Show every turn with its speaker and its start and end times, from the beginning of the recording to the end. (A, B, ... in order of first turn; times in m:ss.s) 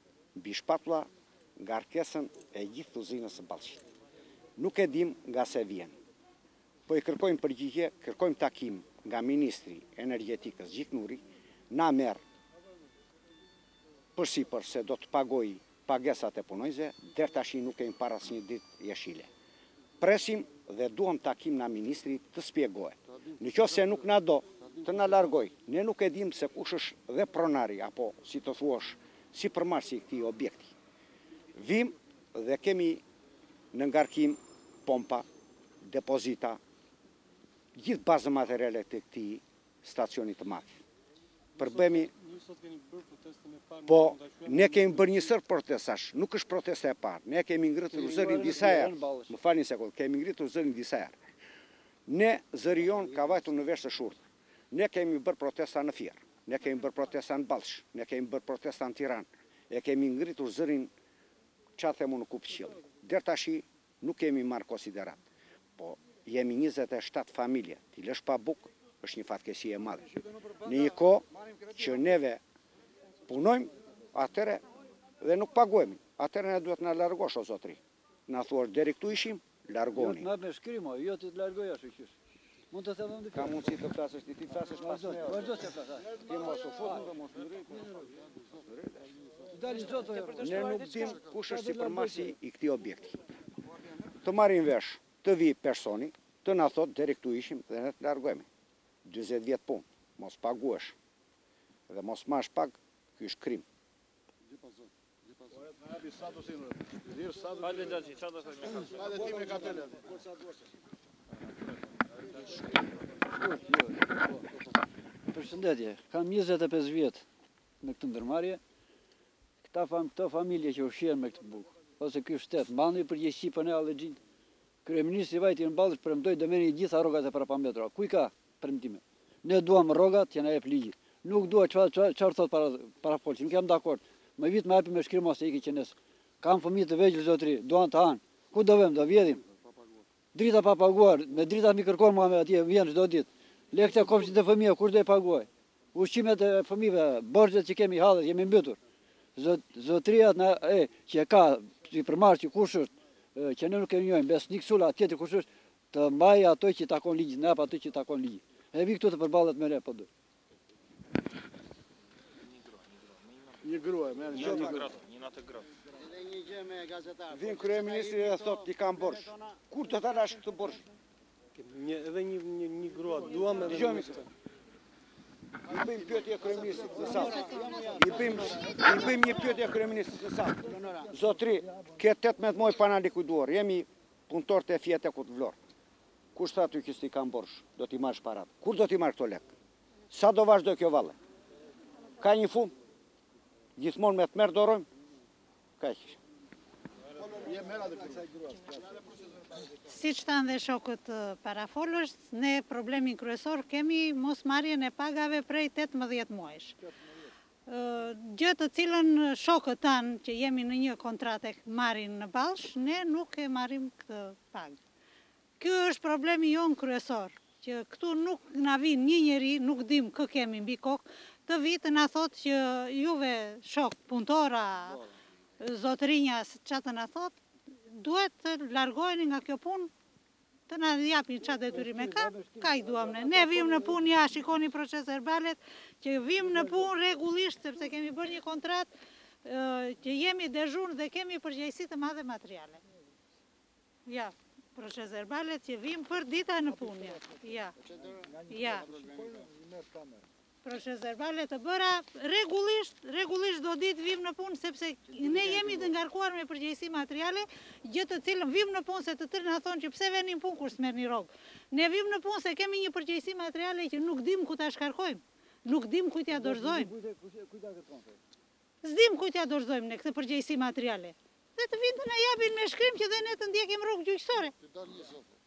0:00.4-0:03.8 A
0:04.6-0:06.0 A
0:06.9-0:12.2 A
0:14.2-0:19.3 A
0:20.0-0:30.7 A
0:31.6-0:33.0 A
0:33.7-0:35.3 A
0:35.8-0:36.6 A
0:37.8-0:40.8 A
0:41.6-0:42.1 A
0:41.6-0:44.9 B
0:43.8-0:51.2 A
0:47.9-0:49.4 C
0:52.1-1:00.9 A
1:01.8-1:05.2 A
1:05.8-1:10.1 A
1:10.6-1:12.4 A
1:13.3-1:14.6 A
1:15.2-1:20.3 A
1:20.0-1:22.2 C
1:22.7-1:23.7 C
1:23.3-1:25.6 A
1:24.8-1:26.2 C
1:26.1-1:29.1 A
1:29.5-1:30.6 C
1:30.2-1:31.0 D
1:30.4-1:33.2 A
1:31.4-1:32.3 C
1:34.2-1:38.5 A
1:39.1-1:41.0 A
1:41.9-1:43.6 A
1:47.6-1:49.8 E
1:49.0-1:49.9 C
1:53.3-1:54.4 C
1:55.3-1:57.2 C
1:57.8-1:58.6 C
1:59.6-2:04.2 C
2:04.8-2:19.4 C
2:20.3-2:28.8 C
2:29.4-2:40.1 C
2:43.7-2:44.9 B
2:44.2-2:44.9 A
2:44.9-2:45.7 E
2:45.9-2:49.6 F
2:47.3-2:50.9 A
2:51.6-2:54.2 B
2:53.6-2:54.2 A
2:55.7-3:05.6 A
2:57.0-2:58.9 F
3:00.6-3:01.1 F
3:06.4-3:09.5 A
3:10.1-3:11.2 A
3:12.2-3:12.7 A
3:13.8-3:14.9 A
3:15.8-3:16.2 A
3:19.8-3:26.8 D
3:27.7-3:34.8 D
3:35.6-3:45.0 D
3:45.6-3:47.3 D
3:47.9-3:49.9 D
3:50.7-3:58.9 D
3:51.7-3:54.0 C
3:59.4-4:02.8 D
4:04.1-4:07.8 D
4:08.4-4:09.0 D
4:10.6-4:26.9 D
4:26.3-4:28.2 C
4:28.8-4:34.6 D